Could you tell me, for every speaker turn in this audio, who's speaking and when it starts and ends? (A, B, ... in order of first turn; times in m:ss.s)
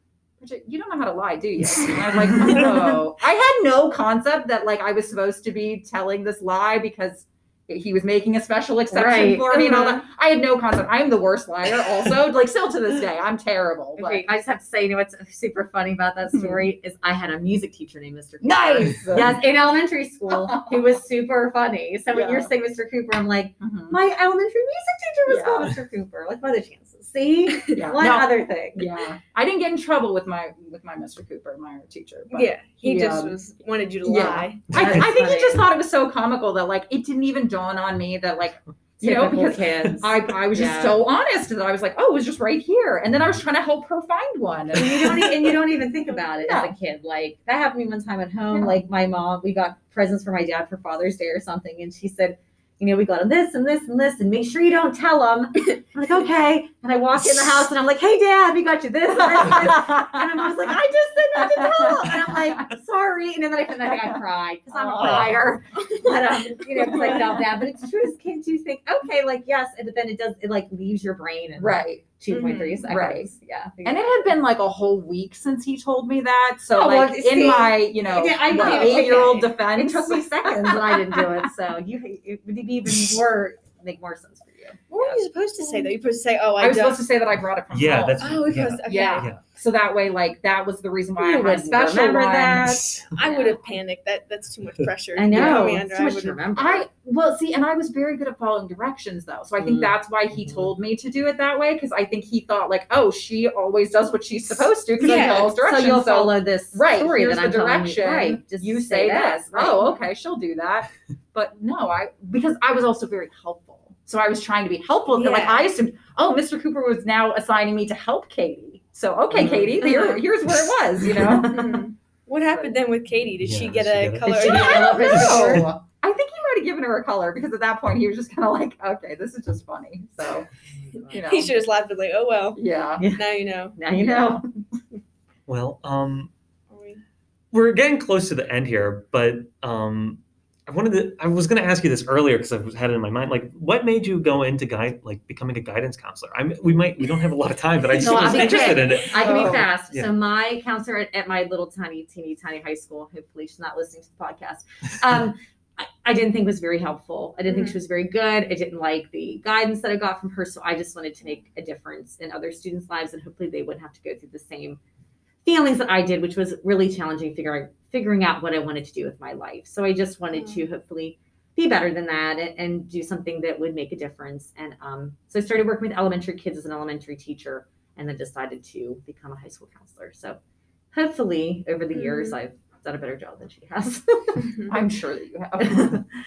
0:00.4-0:14.2 A
0:08.9-0:10.0 B
0:14.0-0:28.9 B
0:16.3-0:16.7 A
0:18.4-0:19.4 A
0:20.3-0:21.0 A
0:22.1-0:22.5 A
0:23.6-0:24.0 A
0:25.3-0:25.8 A
0:27.7-0:33.4 A
0:32.3-0:34.6 C
0:34.0-0:45.4 A
0:34.7-0:35.1 D
0:34.7-0:35.6 B
0:39.0-0:41.0 B
0:44.7-1:14.4 B
0:46.4-0:46.7 A
0:48.5-0:48.8 A
0:59.4-1:00.5 A
1:01.4-1:02.4 A
1:04.7-1:05.4 A
1:05.0-1:05.4 D
1:06.8-1:07.4 A
1:06.8-1:07.3 C
1:11.6-1:12.1 A
1:12.3-1:12.9 C
1:12.8-1:13.3 A
1:13.8-1:21.5 A
1:16.7-1:25.9 B
1:17.3-1:17.6 C
1:18.4-1:19.3 C
1:24.9-1:27.0 C
1:26.6-1:32.8 A
1:27.7-1:29.4 D
1:28.2-1:29.3 C
1:31.2-1:33.6 B
1:32.6-1:33.1 D
1:33.2-1:36.4 C
1:35.1-1:36.9 B
1:35.3-1:35.8 A
1:36.6-2:01.9 A
1:39.6-1:39.9 B
1:45.0-1:45.5 C
1:45.0-1:49.9 B
1:55.1-1:55.6 C
1:59.3-2:00.3 B
2:01.1-2:01.8 B
2:01.5-2:05.6 C
2:02.4-2:02.8 B
2:03.4-2:05.6 D
2:04.2-2:05.6 B
2:04.4-2:10.5 A
2:10.8-2:11.3 B
2:11.1-2:11.5 A
2:11.1-2:12.6 C
2:12.6-2:13.0 A
2:13.0-2:14.4 B
2:13.1-2:13.8 C
2:14.0-2:14.4 A
2:15.5-2:16.3 D
2:16.7-2:17.0 C
2:17.5-2:30.1 D
2:28.0-2:44.8 B
2:28.0-2:29.7 A
2:37.5-2:37.8 C
2:45.4-3:00.4 B
2:50.3-2:50.6 C
3:00.9-3:04.7 B
3:01.9-3:02.4 C
3:04.4-3:04.7 C
3:04.7-3:06.0 A
3:05.6-3:06.0 B